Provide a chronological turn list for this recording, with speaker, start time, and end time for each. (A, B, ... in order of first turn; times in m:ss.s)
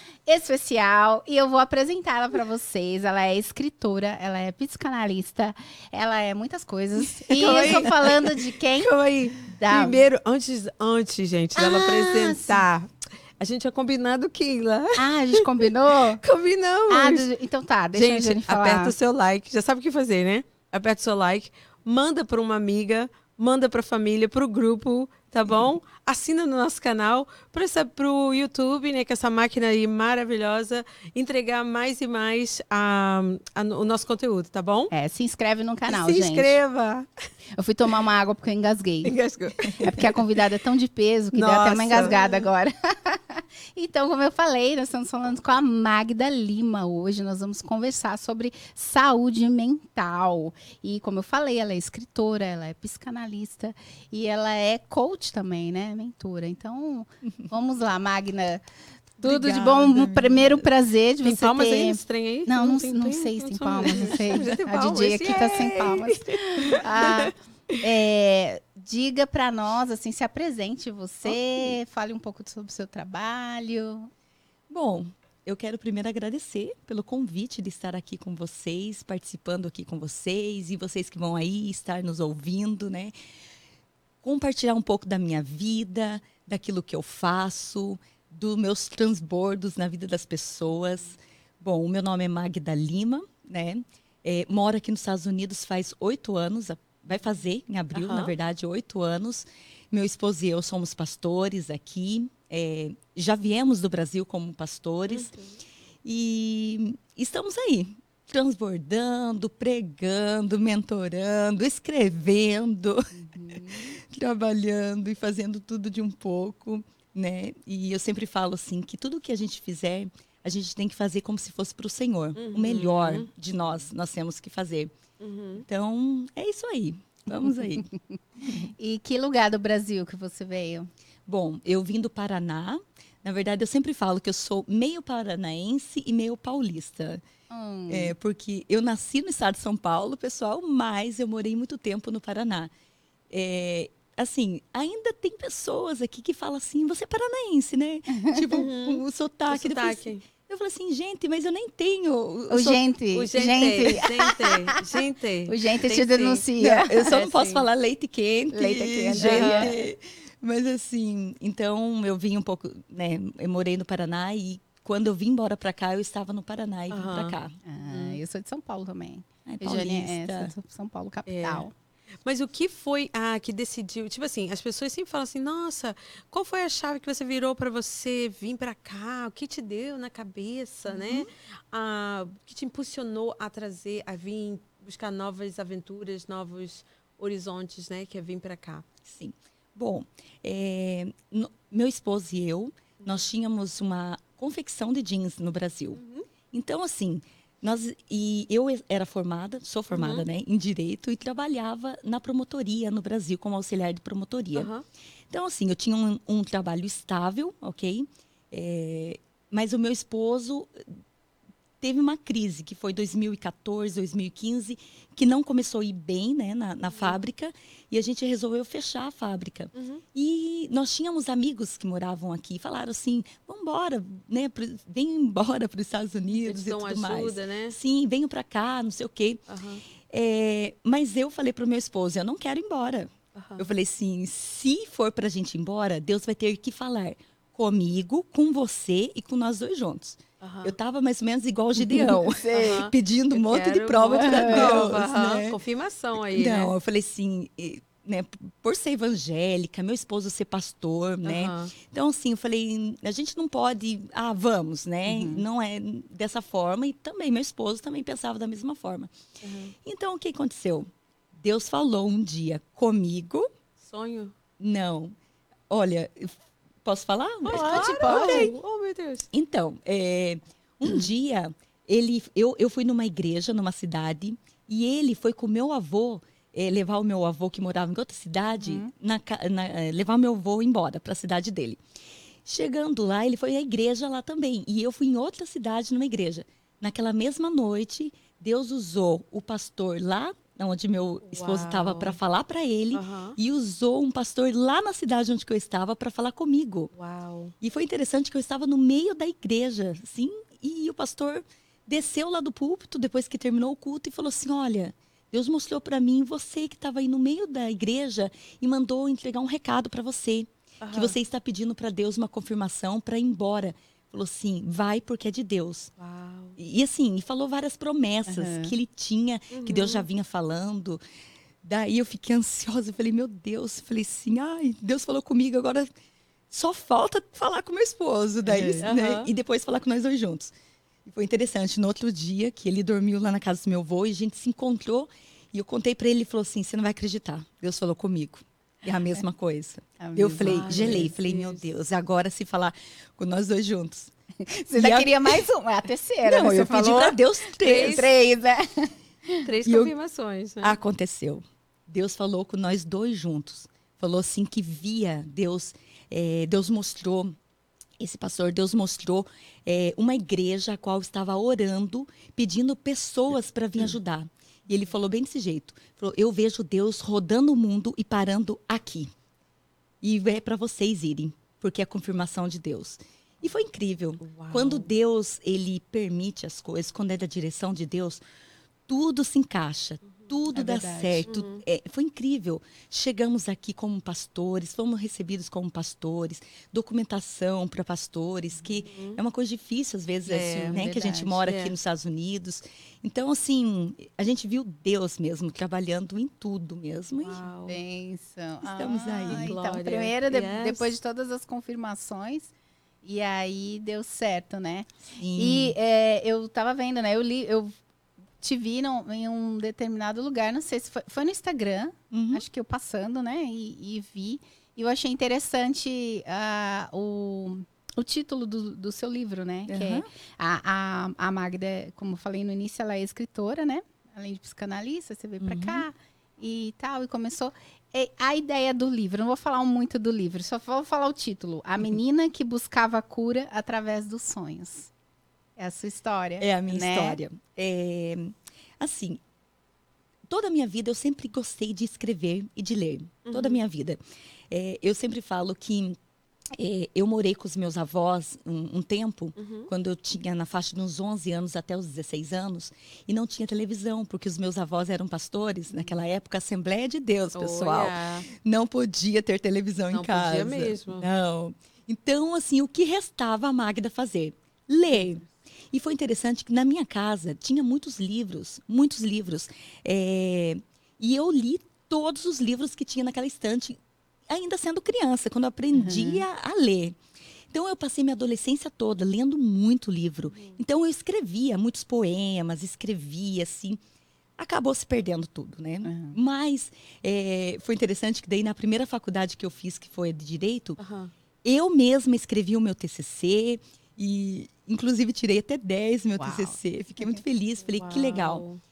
0:00.3-0:08.9 A
0:07.4-0:08.1 B
0:08.8-0:17.3 B
0:09.4-0:10.0 A
0:11.6-0:12.6 A
0:15.0-0:16.2 A
0:16.9-0:18.9 A
0:17.9-0:34.9 B
0:34.9-0:36.6 A
0:35.9-0:37.1 B
0:37.6-0:39.2 A
0:39.0-0:40.2 B
0:39.8-0:58.6 A
0:41.3-0:42.5 B
0:59.2-1:14.1 A
0:59.2-1:00.5 B
1:01.2-1:07.8 B
1:05.3-1:05.9 C
1:11.3-1:11.7 C
1:14.7-1:23.1 C
1:24.2-1:45.3 C
1:37.9-1:38.3 B
1:45.1-1:45.6 B
1:46.0-1:53.1 C
1:53.1-1:54.0 A
1:53.8-2:04.9 C
2:02.4-2:03.3 B
2:05.2-2:05.6 B
2:05.6-2:07.9 C
2:08.4-2:10.9 A
2:11.3-2:17.2 C
2:17.5-2:18.1 A
2:17.9-2:22.7 C
2:23.3-2:32.8 C
2:28.1-2:28.5 A
2:28.5-2:30.2 B
2:32.5-2:34.7 A
2:33.1-2:36.4 B
2:35.5-2:37.2 A
2:36.6-2:47.6 C
2:37.1-2:37.7 B
2:38.5-2:39.7 A
2:39.2-2:39.8 B
2:46.9-2:48.2 B
2:47.6-2:51.7 A
2:49.5-2:50.5 C
2:51.3-2:51.7 B
2:52.2-3:08.8 B
3:01.0-3:01.3 C
3:09.0-3:16.0 C
3:13.0-3:13.3 B
3:15.9-3:16.3 B
3:16.5-3:24.7 C
3:19.9-3:20.3 B
3:24.6-3:24.8 B
3:25.3-3:30.8 C
3:31.8-3:49.4 C
3:39.7-3:40.0 B
3:46.3-3:47.8 B
3:49.5-3:49.8 B
3:50.0-4:05.6 C
3:53.4-3:53.7 B
4:00.4-4:00.8 B
4:01.8-4:02.8 A
4:02.5-4:06.7 B
4:04.2-4:04.9 A
4:06.3-4:19.1 C
4:11.2-4:11.7 B
4:15.1-4:15.4 A
4:19.4-4:19.7 B
4:19.8-4:23.5 C
4:23.8-4:24.4 B
4:24.6-4:25.2 C
4:25.7-4:28.6 C
4:27.4-4:29.3 B
4:27.5-4:28.5 A
4:29.3-4:41.8 C
4:38.6-4:38.9 A
4:42.4-4:56.9 C
4:51.2-4:52.2 B
4:52.9-4:53.4 B
4:56.9-4:57.5 B
4:57.6-5:15.9 C
5:10.8-5:11.2 B
5:16.0-5:16.6 B
5:16.6-5:21.0 C
5:18.3-5:18.8 A
5:19.5-5:20.1 B
5:21.6-5:25.9 C
5:26.5-5:30.5 C
5:28.5-5:28.8 A
5:28.8-5:29.3 B
5:31.0-5:44.1 C
5:40.0-5:41.1 A
5:40.4-5:41.7 B
5:44.4-5:49.4 A
5:44.7-5:45.4 C
5:46.2-5:48.1 C
5:47.6-5:48.1 B
5:49.4-5:50.8 B
5:49.6-5:49.9 C
5:50.6-5:57.4 C
5:58.0-6:09.1 C
6:10.0-6:18.2 C
6:14.2-6:14.9 B
6:18.9-6:37.4 C
6:20.5-6:21.3 A
6:21.3-6:21.6 B
6:28.5-6:29.2 B
6:30.3-6:31.4 A
6:30.3-6:30.8 B
6:31.5-6:31.8 B
6:37.1-6:37.8 B
6:37.7-6:42.5 A
6:38.6-6:39.6 C
6:39.2-6:40.9 B
6:43.0-6:47.8 A
6:45.2-6:45.8 C
6:48.4-7:14.9 A
6:52.1-6:52.4 C
6:59.7-7:00.1 C
7:05.4-7:05.9 C
7:15.6-7:17.2 A
7:16.4-7:19.2 C
7:20.3-7:26.0 C
7:23.3-7:23.6 B
7:26.5-7:57.0 C
7:29.4-7:29.7 B
7:37.3-7:38.3 B
7:39.9-7:41.1 B
7:44.9-7:45.2 B
7:55.7-7:56.2 A
7:57.5-8:03.8 C
8:04.4-8:10.8 C
8:05.8-8:06.2 A
8:10.8-8:11.1 B
8:11.4-8:18.4 C
8:16.2-8:17.2 A
8:17.7-8:18.6 B